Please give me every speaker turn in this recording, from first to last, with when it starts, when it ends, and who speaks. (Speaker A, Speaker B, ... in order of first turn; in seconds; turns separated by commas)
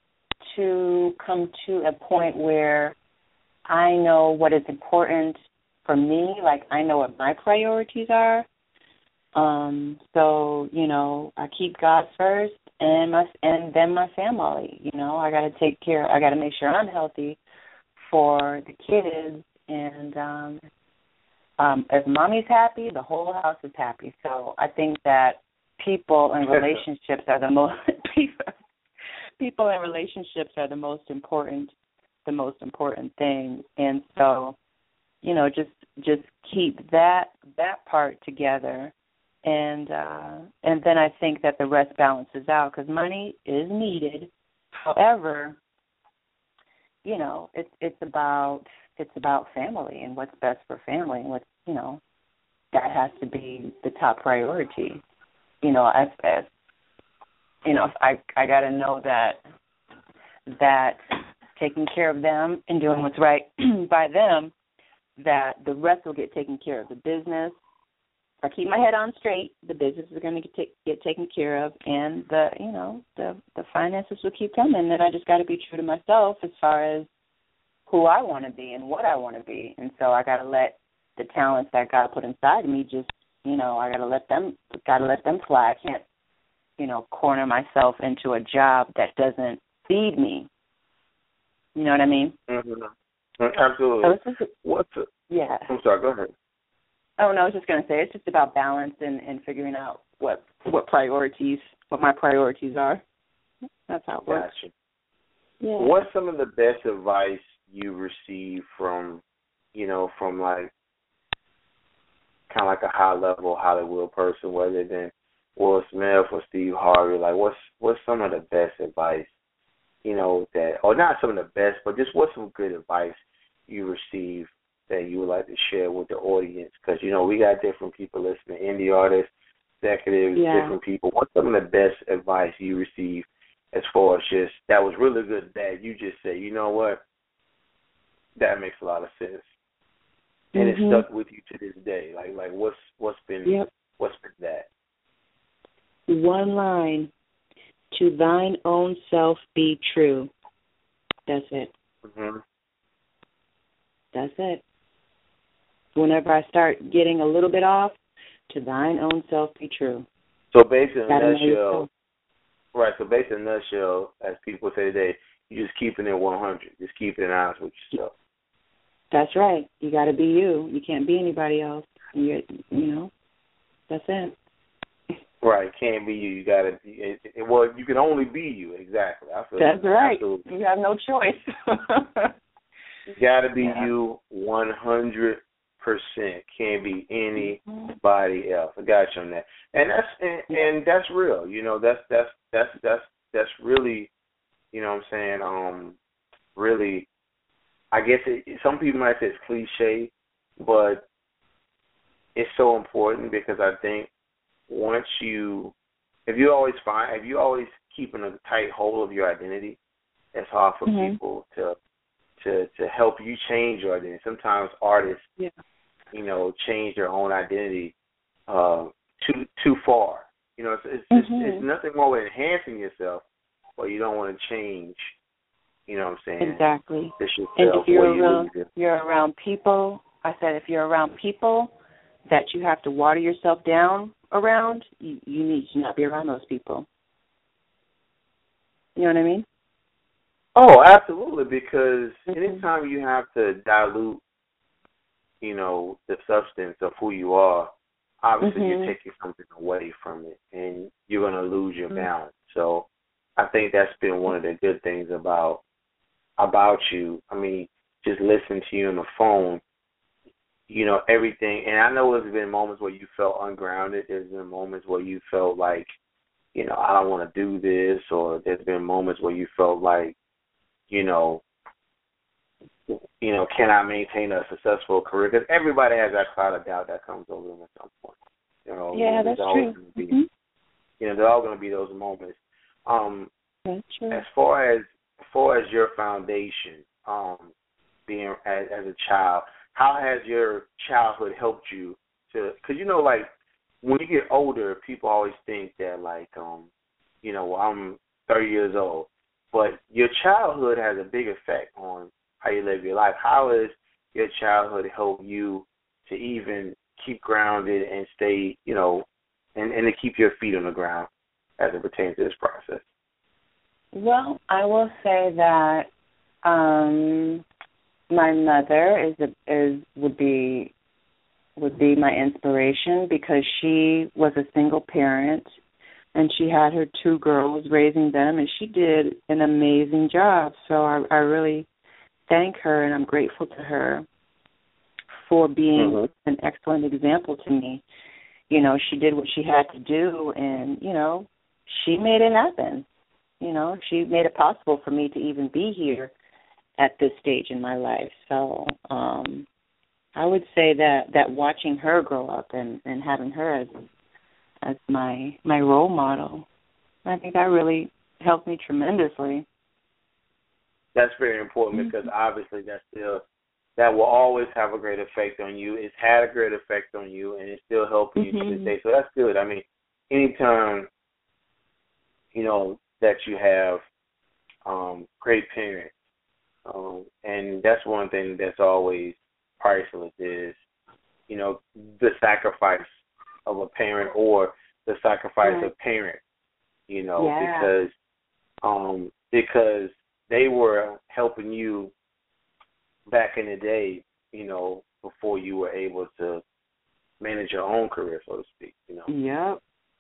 Speaker A: 0.5-3.0, Speaker A: 3.7-5.3, Speaker A: 5.9-8.5, Speaker A: 9.3-17.4, Speaker A: 18.1-20.6, Speaker A: 21.6-28.5, Speaker A: 29.4-31.7, Speaker A: 32.3-34.6, Speaker A: 35.2-38.9, Speaker A: 39.4-45.6, Speaker A: 47.0-52.0, Speaker A: 52.7-55.0, Speaker A: 55.6-56.5, Speaker A: 57.6-59.4, Speaker A: 60.5-61.0, Speaker A: 61.5-64.5, Speaker A: 65.2-67.6, Speaker A: 68.4-77.1, Speaker A: 77.9-86.0, Speaker A: 86.8-90.5, Speaker A: 91.8-92.4, Speaker B: 92.5-95.1, Speaker A: 94.0-94.5, Speaker A: 95.3-95.7, Speaker B: 95.7-96.3, Speaker A: 97.2-103.0, Speaker A: 103.9-104.5, Speaker B: 104.2-104.7, Speaker A: 105.6-105.9, Speaker B: 105.8-109.2, Speaker B: 109.8-110.7, Speaker B: 112.5-119.3, Speaker B: 120.0-129.3, Speaker B: 129.8-137.0, Speaker A: 130.3-130.8, Speaker B: 138.4-139.5, Speaker A: 140.6-141.1, Speaker B: 140.6-144.7, Speaker A: 146.1-147.1, Speaker A: 147.9-150.3, Speaker A: 151.3-151.7, Speaker B: 152.1-152.4, Speaker A: 154.1-154.6, Speaker A: 155.9-158.0, Speaker A: 158.5-160.1, Speaker B: 160.5-161.9, Speaker A: 161.1-161.9, Speaker B: 162.8-168.1, Speaker A: 169.1-173.1, Speaker A: 173.9-174.3, Speaker B: 175.4-180.4, Speaker A: 179.6-182.3, Speaker B: 183.1-194.1, Speaker A: 183.6-183.9, Speaker A: 187.4-187.9, Speaker B: 194.7-196.0, Speaker B: 196.6-197.1, Speaker B: 197.9-201.1, Speaker B: 202.4-204.1, Speaker B: 204.7-205.7, Speaker B: 206.3-209.8, Speaker B: 210.3-211.8, Speaker A: 210.9-211.2, Speaker B: 212.4-215.3, Speaker B: 216.1-217.9, Speaker B: 218.5-223.2, Speaker A: 221.1-221.7, Speaker B: 223.8-225.1, Speaker B: 225.9-226.6, Speaker A: 226.4-231.7, Speaker B: 227.2-228.7, Speaker A: 232.3-236.9, Speaker A: 239.0-239.4, Speaker B: 240.6-244.2, Speaker A: 242.3-242.6, Speaker B: 245.4-255.6, Speaker A: 248.4-248.9, Speaker B: 256.4-259.6, Speaker B: 260.7-265.9, Speaker B: 266.6-270.2, Speaker B: 270.9-271.4, Speaker B: 272.9-280.2, Speaker A: 278.9-280.3, Speaker B: 281.0-283.3, Speaker A: 283.7-284.2, Speaker B: 284.1-287.5, Speaker B: 288.1-293.3, Speaker B: 293.8-296.7, Speaker B: 297.2-309.1, Speaker B: 309.6-312.8, Speaker A: 313.9-315.9, Speaker A: 316.4-317.4, Speaker A: 318.1-320.7, Speaker A: 321.6-325.5, Speaker A: 326.1-331.7, Speaker A: 332.3-334.1, Speaker A: 335.3-337.8, Speaker B: 335.8-336.1, Speaker A: 338.5-342.9, Speaker A: 343.4-346.1, Speaker A: 346.8-349.5, Speaker A: 350.1-353.7, Speaker A: 354.6-356.5, Speaker A: 357.1-359.5, Speaker B: 360.9-363.2, Speaker A: 361.7-362.1, Speaker B: 363.8-370.9, Speaker A: 368.2-368.7, Speaker B: 372.3-373.8, Speaker B: 374.7-375.9, Speaker B: 376.7-380.6, Speaker B: 381.3-386.2, Speaker A: 385.4-385.7, Speaker B: 386.9-387.9, Speaker A: 387.2-387.7, Speaker B: 388.6-391.9, Speaker B: 393.1-396.4, Speaker B: 397.2-399.1, Speaker A: 399.1-399.6